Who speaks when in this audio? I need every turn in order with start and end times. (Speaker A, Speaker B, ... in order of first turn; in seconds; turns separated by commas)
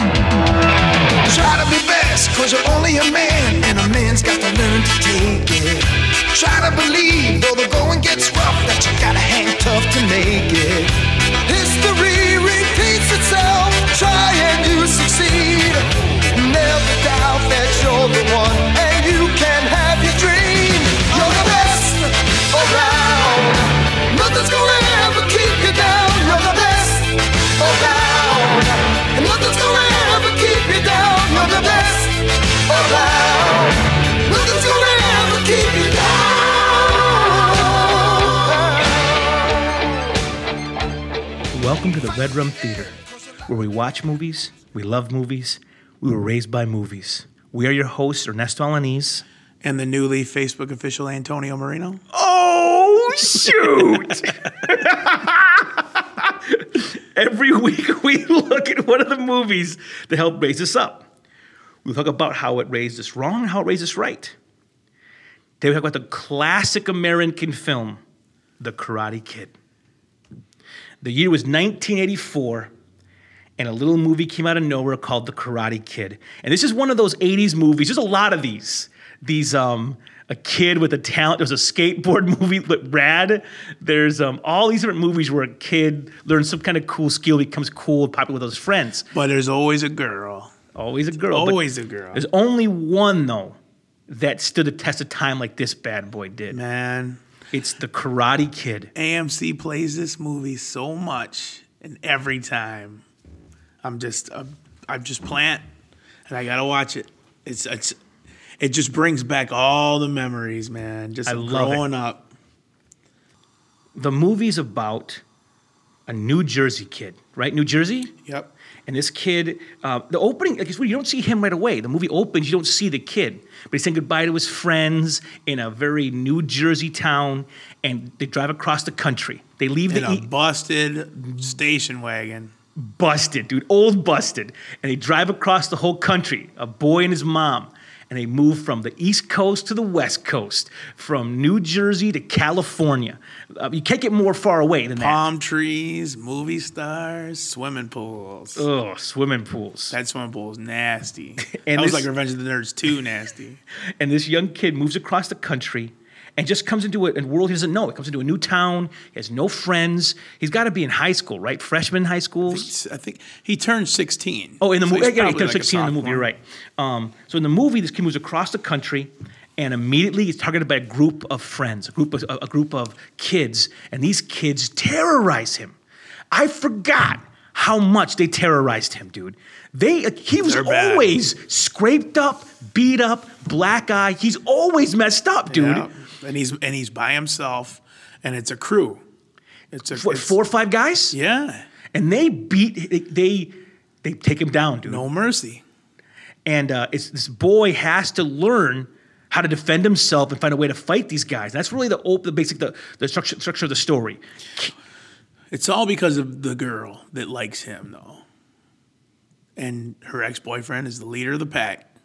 Speaker A: 1.2-39.3, Speaker B: 41.5-49.2, Speaker C: 49.6-52.0, Speaker B: 52.1-61.0, Speaker B: 61.8-64.3, Speaker B: 65.6-68.0, Speaker B: 68.6-69.5, Speaker B: 71.0-72.7, Speaker B: 73.6-89.0, Speaker C: 89.1-90.5, Speaker B: 90.7-93.6, Speaker C: 91.3-92.2, Speaker B: 94.1-96.6, Speaker C: 96.5-97.2, Speaker B: 97.5-98.9, Speaker C: 98.9-103.0, Speaker C: 103.8-105.6, Speaker C: 106.3-108.0, Speaker C: 108.6-112.3, Speaker B: 111.2-111.8, Speaker B: 113.9-115.2, Speaker B: 116.1-118.1, Speaker C: 118.2-118.5, Speaker B: 118.9-130.3, Speaker C: 129.9-132.5, Speaker B: 132.8-145.2, Speaker C: 145.0-148.7, Speaker B: 148.6-149.9, Speaker C: 149.9-153.6, Speaker B: 151.4-152.1, Speaker B: 154.0-162.7, Speaker C: 162.5-166.3, Speaker B: 164.6-175.8, Speaker B: 176.3-185.9, Speaker C: 180.4-181.2, Speaker C: 185.5-189.0, Speaker C: 189.7-190.4, Speaker B: 189.9-191.2, Speaker C: 191.1-191.6, Speaker B: 191.9-193.5, Speaker B: 194.0-195.1, Speaker C: 194.8-195.6, Speaker B: 196.4-204.7, Speaker C: 205.5-208.2, Speaker C: 209.6-211.9